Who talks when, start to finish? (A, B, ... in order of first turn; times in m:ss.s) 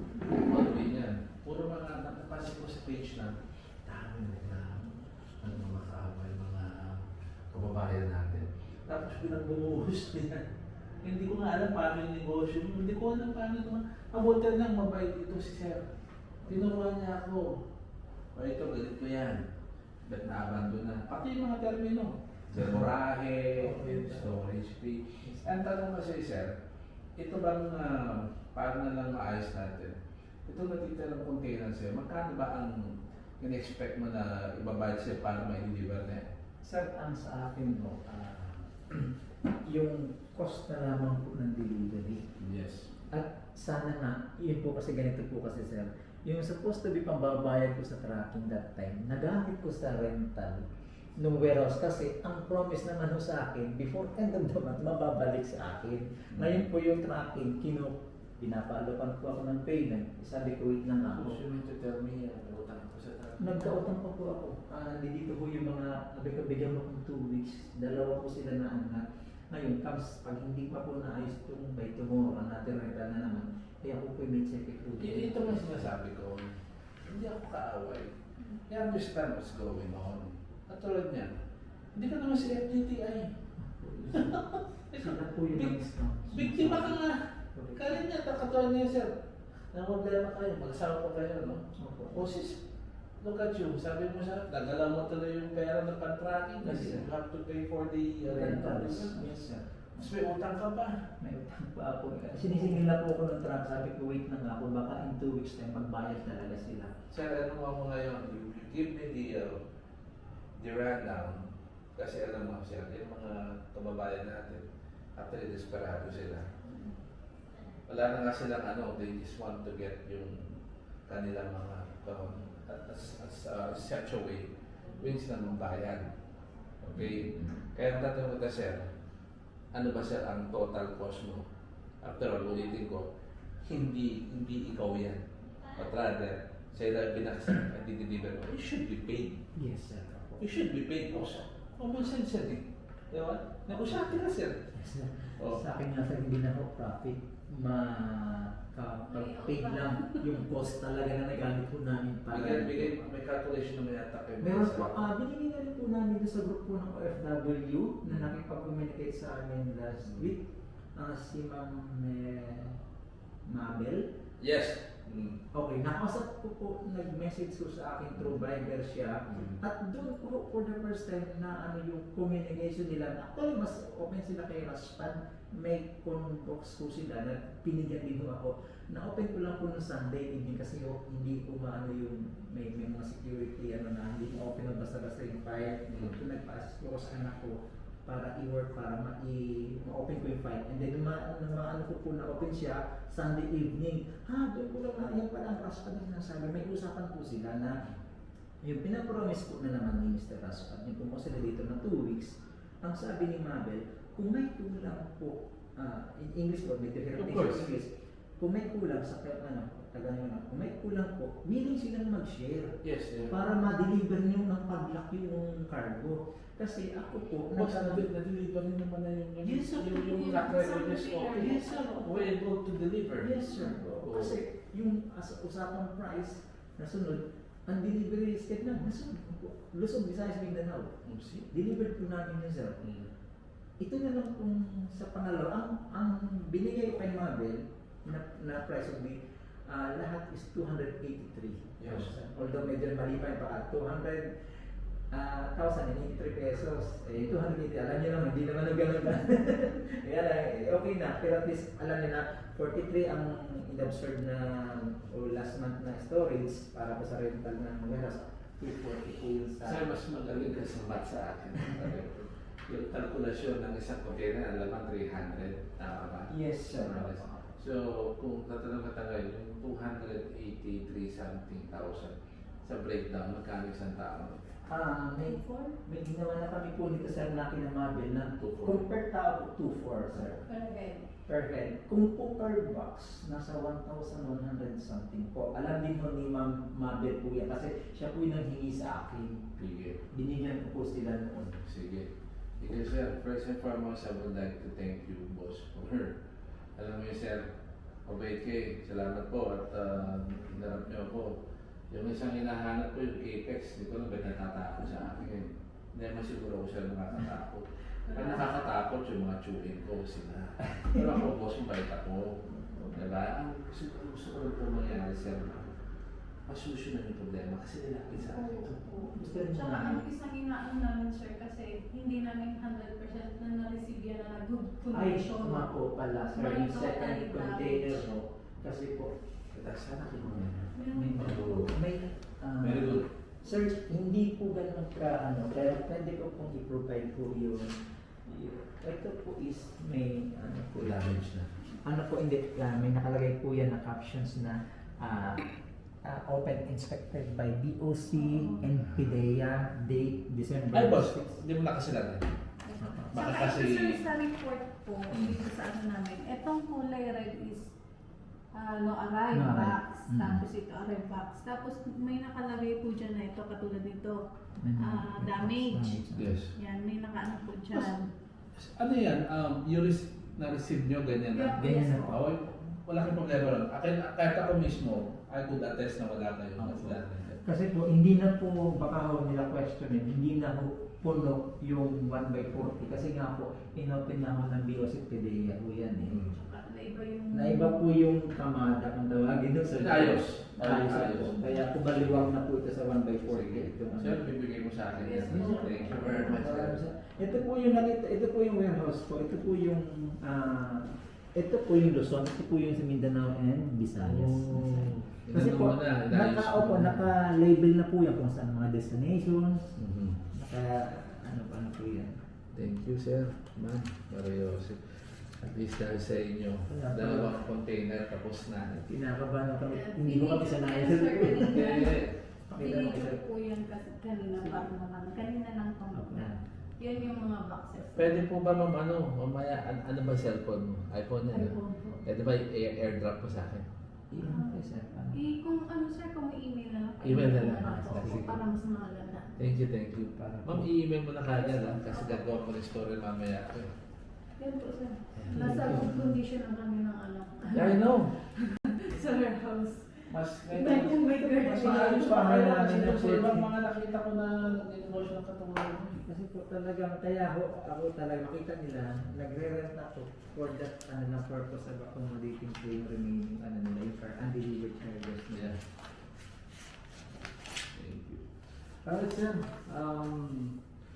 0:00.3-0:10.4 A
0:11.0-0:15.9 A
0:16.5-0:17.6 A
0:18.3-0:19.4 A
0:20.0-0:26.5 A
0:22.6-0:22.9 B
0:23.6-0:24.4 B
0:25.2-0:25.5 B
0:27.2-0:36.3 A
0:36.6-0:39.1 B
0:39.6-0:42.3 B
0:42.4-0:42.9 A
0:43.1-1:01.4 B
0:56.3-0:56.6 A
1:01.1-1:03.8 A
1:03.4-1:15.8 B
1:15.0-1:16.5 A
1:17.0-1:18.2 A
1:18.7-1:21.3 A
1:21.9-1:23.3 A
1:23.6-1:27.0 B
1:24.1-1:25.8 A
1:26.3-1:27.2 A
1:27.5-1:28.0 B
1:27.8-1:29.1 A
1:29.7-1:32.6 A
1:31.8-1:32.2 B
1:33.2-1:39.3 A
1:36.6-1:37.1 B
1:38.2-1:40.1 B
1:40.0-1:40.9 A
1:41.2-1:46.9 B
1:47.1-1:49.6 A
1:50.6-1:54.6 A
1:55.2-1:56.5 A
1:57.9-2:06.1 A
2:06.8-2:08.9 A
2:07.0-2:07.6 B
2:09.7-2:11.4 A
2:12.0-2:13.1 A
2:13.6-2:19.4 A
2:19.5-2:20.4 B
2:20.4-2:24.6 A
2:23.8-2:24.2 B
2:24.7-2:32.9 B
2:25.4-2:25.6 A
2:29.1-2:30.2 C
2:32.3-2:35.1 A
2:34.4-2:42.8 B
2:38.0-2:38.3 A
2:40.0-2:40.3 A
2:43.5-2:44.0 B
2:44.4-2:45.4 A
2:45.5-3:17.8 B
2:48.1-2:48.4 A
2:49.3-2:49.6 A
3:05.9-3:06.2 A
3:18.6-3:38.1 B
3:27.2-3:27.7 A
3:32.8-3:33.4 A
3:37.5-3:44.4 A
3:39.4-3:40.4 B
3:39.8-3:42.2 C
3:41.3-3:42.2 B
3:43.2-3:50.9 B
3:51.0-3:51.5 A
3:51.5-3:52.8 B
3:52.8-3:53.1 A
3:53.8-4:04.3 B
4:01.8-4:02.1 A
4:05.1-4:19.9 B
4:19.6-4:34.4 A
4:26.3-4:27.5 B
4:34.7-4:40.4 B
4:35.2-4:35.7 C
4:38.4-4:38.8 A
4:40.1-4:40.4 A
4:40.5-4:41.1 C
4:41.2-4:49.4 B
4:49.6-4:50.0 A
4:50.1-4:51.5 B
4:51.4-4:56.1 A
4:56.8-4:57.5 A
4:58.0-5:15.8 A
5:08.1-5:08.6 C
5:10.6-5:11.2 B
5:12.5-5:13.0 B
5:16.5-5:18.7 A
5:18.2-5:25.8 C
5:18.5-5:20.0 B
5:24.9-5:29.1 B
5:26.3-5:28.0 C
5:29.5-5:31.8 A
5:30.0-5:41.1 B
5:30.7-5:31.4 C
5:32.6-5:33.1 A
5:40.8-5:41.5 A
5:41.8-5:45.4 B
5:46.0-5:51.4 B
5:48.2-5:48.6 C
5:50.7-5:52.3 A
5:52.6-5:57.7 C
5:52.8-5:53.2 B
5:53.1-5:54.0 A
5:55.1-5:55.4 A
5:58.5-6:04.2 C
5:59.3-6:00.4 B
6:04.6-6:06.3 B
6:04.8-6:06.0 C
6:06.1-6:06.5 A
6:06.6-6:08.1 C
6:08.5-6:17.4 A
6:11.3-6:12.1 C
6:11.5-6:12.4 B
6:16.6-6:26.2 B
6:26.1-6:26.4 A
6:26.3-6:27.8 C
6:27.3-6:34.3 B
6:29.7-6:32.3 A
6:33.2-6:36.8 A
6:35.0-6:36.4 C
6:35.2-6:49.8 B
6:44.0-6:47.0 A
6:49.8-6:50.2 A
6:50.3-6:52.2 B
6:52.5-6:58.9 A
6:56.7-6:57.4 B
6:58.8-7:01.9 B
6:59.6-7:08.2 C
7:01.5-7:02.2 A
7:02.5-7:03.2 B
7:05.9-7:06.4 B
7:07.8-7:13.7 A
7:11.3-7:12.0 C
7:14.1-7:15.2 B
7:14.2-7:14.6 C
7:15.1-7:19.4 C
7:17.0-7:18.4 A
7:17.6-7:18.3 B
7:19.4-7:23.7 A
7:20.3-7:20.6 B
7:21.7-7:22.3 C
7:24.4-7:32.3 C
7:25.2-7:25.8 A
7:25.2-7:26.2 B
7:27.5-7:28.2 A
7:30.1-7:36.0 A
7:31.2-7:33.5 B
7:36.0-7:45.5 B
7:45.3-7:45.6 A
7:47.7-7:50.6 A